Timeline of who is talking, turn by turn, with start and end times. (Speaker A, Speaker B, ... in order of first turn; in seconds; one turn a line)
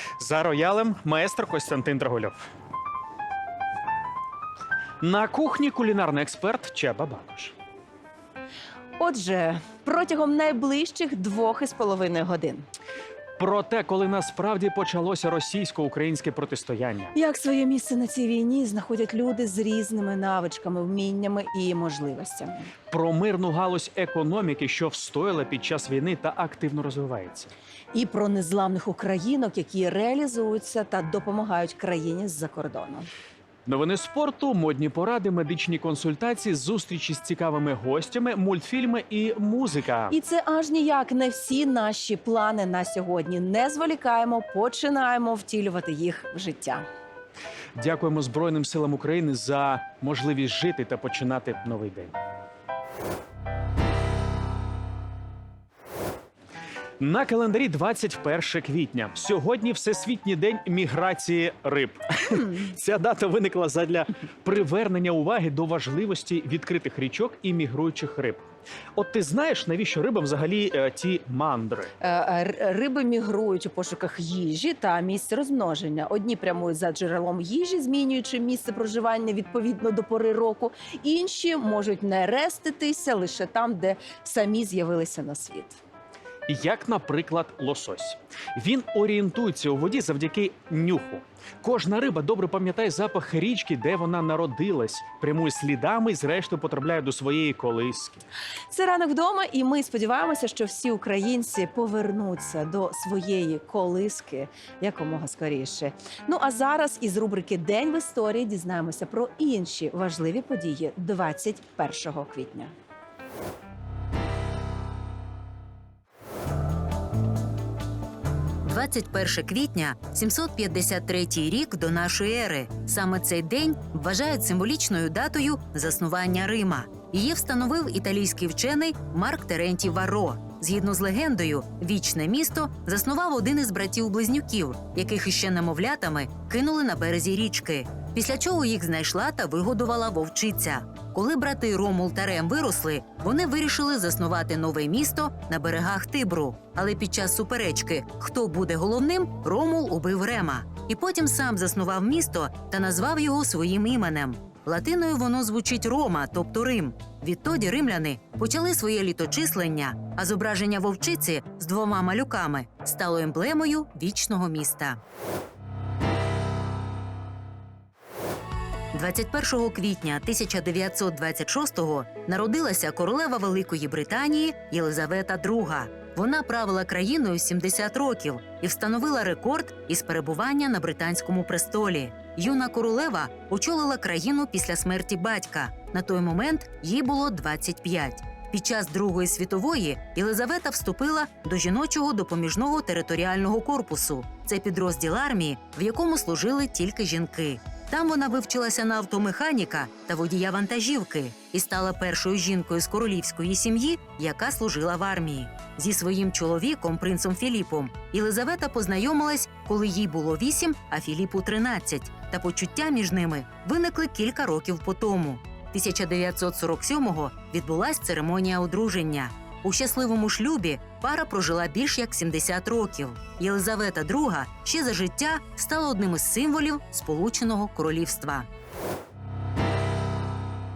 Speaker A: 0.2-2.4
Speaker A: 5.0-7.5
Speaker B: 9.0-12.7
Speaker A: 13.4-17.1
Speaker B: 17.1-22.7
Speaker A: 22.9-27.5
Speaker B: 27.9-33.1
Speaker A: 33.7-40.1
Speaker B: 40.1-46.9
Speaker A: 47.8-52.1
Speaker A: 57.0-68.4
Speaker A: 69.0-71.9
Speaker B: 72.0-85.8
Speaker A: 86.5-98.2
Speaker B: 98.7-112.7
Speaker C: 118.7-165.0
Speaker C: 168.9-228.5